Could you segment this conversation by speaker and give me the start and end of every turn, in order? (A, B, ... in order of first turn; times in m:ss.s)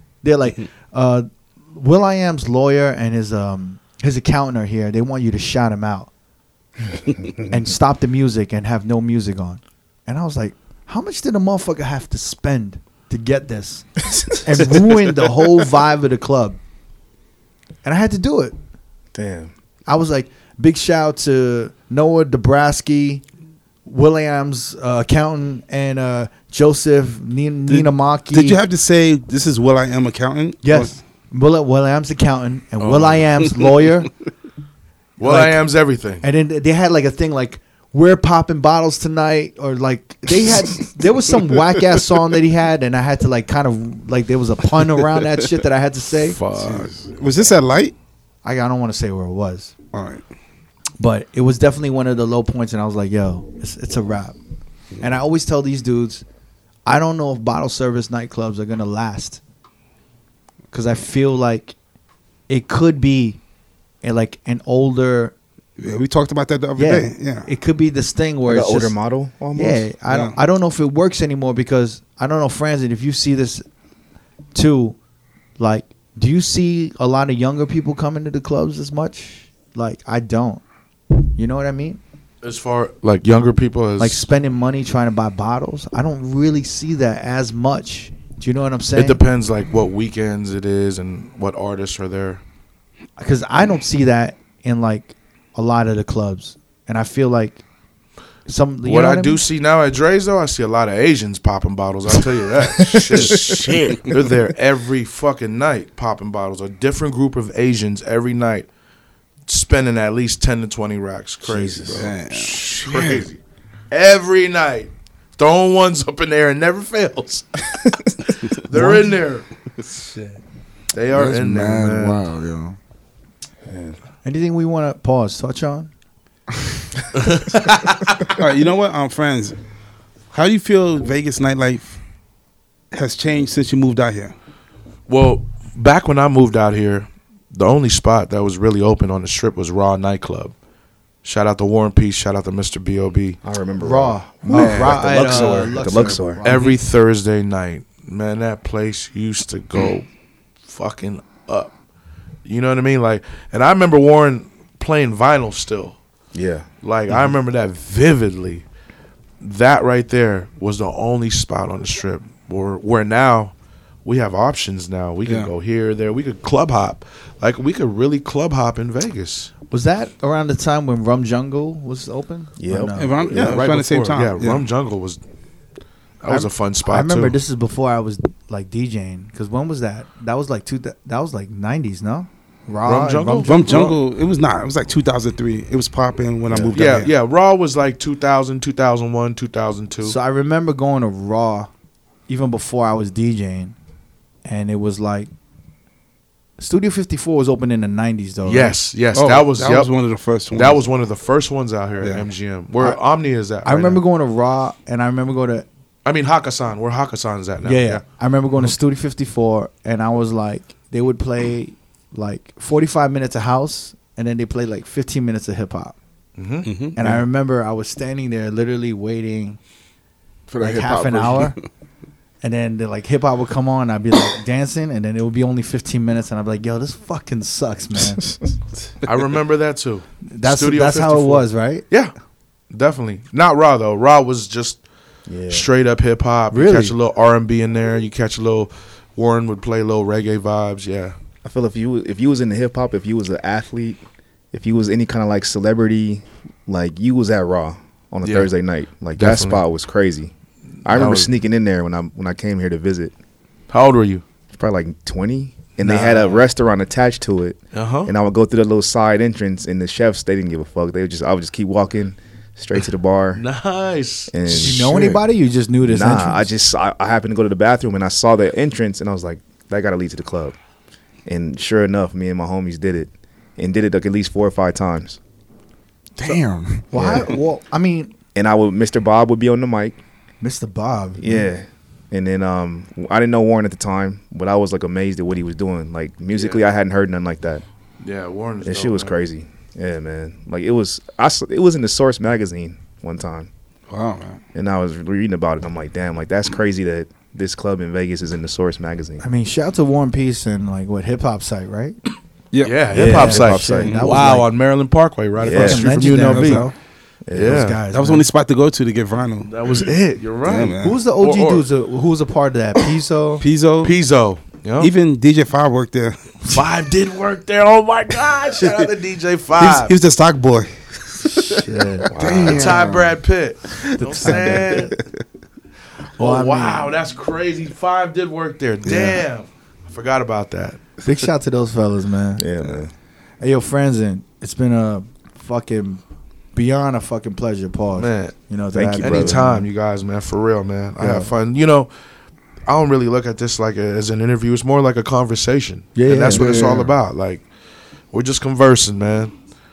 0:00.2-0:06.1 A
0:07.5-0:16.6 A
0:17.8-0:18.6 A
0:19.1-0:19.5 B
0:19.9-0:23.2 A
0:23.8-0:28.6 A
0:27.7-0:30.9 C
0:30.6-0:34.1 A
0:32.8-0:33.3 D
0:35.2-0:36.2 D
0:35.2-0:35.6 A
0:36.2-0:46.4 A
0:46.3-0:46.9 D
0:46.6-0:47.9 C
0:48.4-0:49.7 A
0:49.9-0:50.2 C
0:51.0-0:54.4 A
0:55.0-0:56.2 A
0:56.9-0:59.4 A
1:00.7-1:01.8 A
1:02.5-1:03.4 A
1:04.0-1:05.4 A
1:05.8-1:07.5 C
1:06.8-1:09.0 A
1:08.5-1:09.9 B
1:09.5-1:13.6 A
1:10.1-1:10.4 C
1:14.5-1:15.0 A
1:15.6-1:20.6 A
1:21.4-1:22.0 A
1:22.4-1:24.2 D
1:24.0-1:29.2 A
1:29.0-1:32.4 D
1:33.2-1:37.6 A
1:38.5-1:39.4 A
1:38.8-1:48.7 D
1:49.5-1:53.4 D
1:51.4-1:52.1 B
1:52.0-1:52.7 C
1:52.7-1:53.2 E
1:53.9-1:59.5 D
1:58.7-1:59.1 A
1:59.8-2:00.4 A
2:00.9-2:02.2 D
2:01.1-2:02.8 E
2:03.7-2:04.0 B
2:04.2-2:05.9 A
2:07.2-2:08.3 D
2:08.4-2:09.6 C
2:10.3-2:12.0 C
2:12.9-2:14.3 C
2:15.1-2:20.5 D
2:21.2-2:23.4 D
2:23.4-2:26.4 B
2:23.8-2:26.8 A
2:24.5-2:26.7 C
2:26.4-2:30.1 D
2:30.7-2:31.7 D
2:32.4-2:36.0 D
2:36.3-2:36.7 B
2:36.8-2:38.6 D
2:39.4-2:49.5 D
2:45.3-2:45.5 C
2:49.7-2:53.8 A
2:52.6-2:53.6 B
2:53.0-2:54.7 C
2:53.4-2:55.2 D
2:56.2-2:57.4 D
2:56.2-3:03.6 A
3:02.8-3:04.0 D
3:03.4-3:07.1 C
3:06.5-3:06.9 B
3:06.7-3:10.2 D
3:10.0-3:11.7 A
3:12.3-3:13.8 A
3:14.4-3:15.3 A
3:16.6-3:18.8 A
3:18.4-3:19.9 D
3:19.1-3:20.8 C
3:20.5-3:24.0 D
3:22.0-3:22.3 C
3:23.6-3:25.7 A
3:26.0-3:28.0 D
3:27.6-3:36.0 A
3:36.4-3:36.7 D
3:36.6-3:37.2 C
3:37.0-3:39.6 A
3:40.5-3:41.5 E
3:40.6-3:41.6 A
3:42.4-3:48.4 A
3:49.0-3:52.1 D
3:50.3-3:51.8 A
3:52.7-3:54.8 D
3:55.3-3:55.7 B
3:55.5-4:01.2 D
3:56.5-3:56.9 A
4:01.4-4:04.0 B
4:04.5-4:10.3 B
4:08.2-4:08.5 D
4:09.2-4:09.6 D
4:10.8-4:13.1 B
4:10.9-4:11.3 D
4:13.7-4:14.2 D
4:14.5-4:23.4 B
4:15.8-4:16.4 D
4:17.7-4:18.1 D
4:23.4-4:25.1 D
4:24.3-4:25.2 B
4:24.5-4:26.5 A
4:25.9-4:30.6 B
4:31.3-4:35.2 B
4:36.2-4:36.9 E
4:36.9-4:38.1 A
4:36.9-4:37.3 B
4:38.4-4:40.0 B
4:40.4-4:41.5 A
4:41.2-4:47.6 B
4:46.3-4:46.6 D
4:48.0-4:49.2 D
4:48.6-4:53.5 B
4:53.9-4:54.4 C
4:54.5-4:59.2 B
4:59.2-5:02.0 A
5:02.5-5:02.9 C
5:02.6-5:06.7 D
5:02.9-5:04.1 B
5:03.0-5:04.5 A
5:05.4-5:05.9 B
5:05.5-5:06.8 A
5:06.1-5:06.7 C
5:07.3-5:07.7 B
5:07.3-5:07.8 D
5:07.4-5:08.3 A
5:07.9-5:09.8 C
5:09.5-5:11.7 D
5:10.4-5:11.0 C
5:10.8-5:13.4 A
5:13.4-5:13.9 C
5:13.8-5:14.9 D
5:14.8-5:16.3 C
5:16.5-5:19.9 D
5:19.6-5:21.3 C
5:21.3-5:22.1 A
5:22.1-5:22.9 B
5:22.2-5:23.1 E
5:22.4-5:25.0 D
5:24.0-5:24.9 A
5:26.2-5:26.9 A
5:26.2-5:30.8 D
5:28.8-5:29.2 A
5:31.0-5:32.5 A
5:32.4-5:32.9 B
5:33.4-5:36.0 A
5:36.5-5:39.6 A
5:38.0-5:38.4 D
5:38.7-5:39.6 B
5:39.0-5:41.9 D
5:41.0-5:41.3 A
5:42.7-5:47.4 D
5:46.0-5:46.5 A
5:46.3-5:46.9 E
5:48.1-5:49.4 D